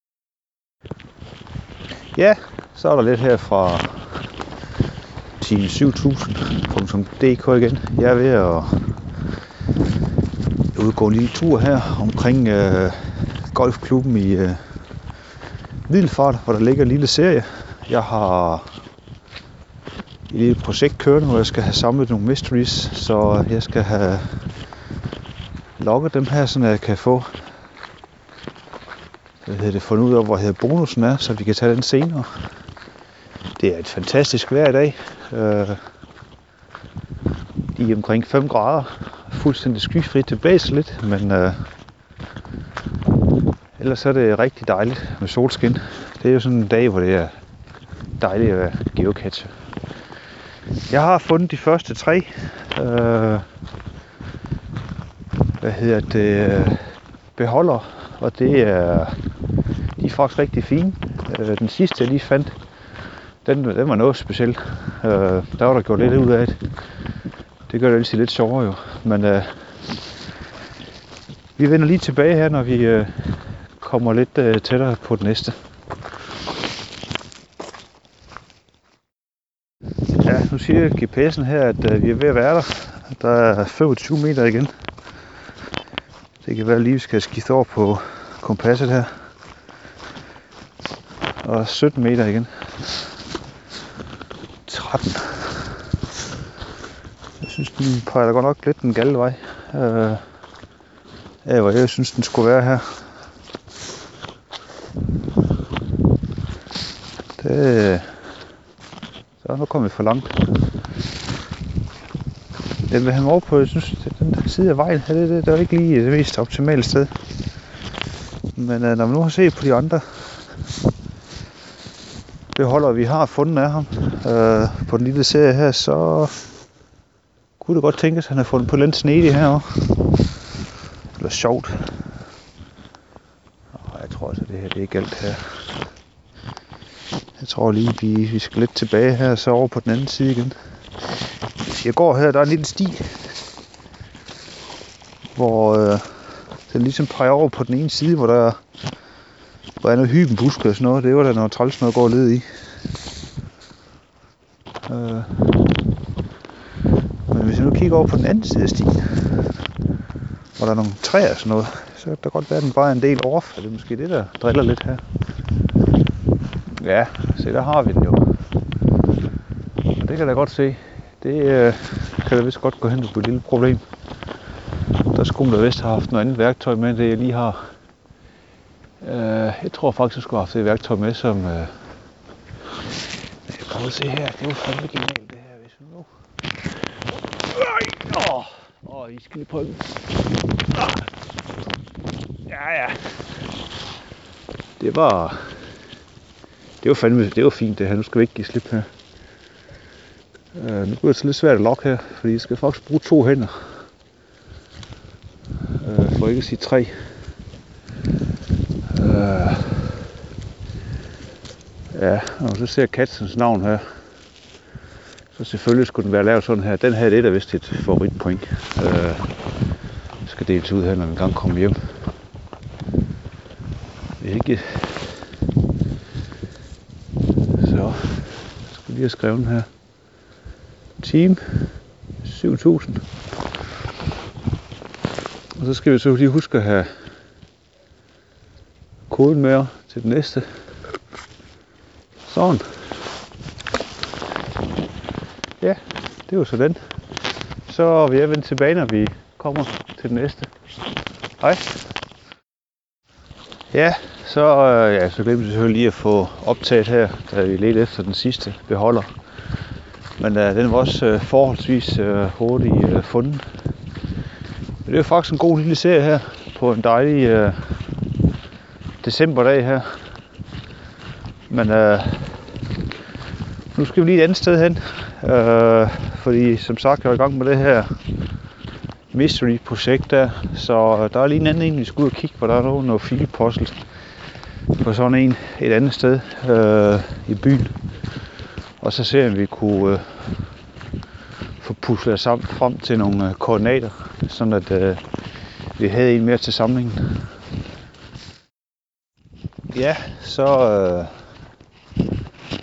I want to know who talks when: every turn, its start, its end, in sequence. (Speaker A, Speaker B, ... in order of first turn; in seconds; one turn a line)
Speaker A: 2.1-4.2
Speaker A: 5.4-8.8
Speaker A: 10.7-14.6
Speaker A: 15.9-18.7
Speaker A: 20.3-24.4
Speaker A: 25.8-27.3
Speaker A: 29.4-32.3
Speaker A: 33.6-35.8
Speaker A: 37.7-41.7
Speaker A: 43.8-47.3
Speaker A: 48.2-49.5
Speaker A: 50.9-53.4
Speaker A: 55.6-56.8
Speaker A: 57.4-59.1
Speaker A: 60.0-62.5
Speaker A: 63.4-66.6
Speaker A: 67.7-70.0
Speaker A: 71.6-75.5
Speaker A: 80.2-84.7
Speaker A: 86.4-89.1
Speaker A: 91.4-92.9
Speaker A: 94.7-95.7
Speaker A: 97.4-100.2
Speaker A: 101.4-103.0
Speaker A: 107.4-108.1
Speaker A: 109.4-110.3
Speaker A: 112.9-117.1
Speaker A: 118.5-120.4
Speaker A: 122.5-126.4
Speaker A: 127.6-129.9
Speaker A: 131.2-132.1
Speaker A: 133.8-135.6
Speaker A: 137.4-140.6
Speaker A: 141.7-143.2
Speaker A: 145.3-146.1
Speaker A: 146.7-148.6
Speaker A: 149.8-152.5
Speaker A: 154.9-155.5
Speaker A: 157.3-159.3
Speaker A: 160.6-165.0
Speaker A: 166.7-168.2
Speaker A: 170.0-173.8
Speaker A: 175.1-177.6
Speaker A: 179.0-181.7
Speaker A: 183.5-186.1
Speaker A: 187.4-190.0
Speaker A: 190.7-191.1
Speaker A: 192.5-193.1
Speaker A: 194.8-195.4
Speaker A: 196.8-198.9
Speaker A: 200.5-203.5
Speaker A: 205.8-206.9
Speaker A: 208.9-210.0
Speaker A: 211.9-213.8
Speaker A: 215.3-219.2
Speaker A: 220.2-221.9
Speaker A: 224.2-225.2
Speaker A: 227.6-229.7
Speaker A: 231.0-231.4
Speaker A: 232.2-233.0
Speaker A: 235.6-236.9
Speaker A: 239.1-240.5
Speaker A: 242.3-242.6
Speaker A: 245.6-246.8
Speaker A: 247.7-250.5
Speaker A: 251.4-251.8
Speaker A: 253.7-259.1
Speaker A: 260.2-263.4
Speaker A: 264.8-267.7
Speaker A: 269.0-270.0
Speaker A: 271.5-272.4
Speaker A: 273.7-278.0
Speaker A: 279.1-283.8
Speaker A: 284.8-287.8
Speaker A: 288.8-290.5
Speaker A: 291.6-295.0
Speaker A: 295.8-297.2
Speaker A: 299.7-301.1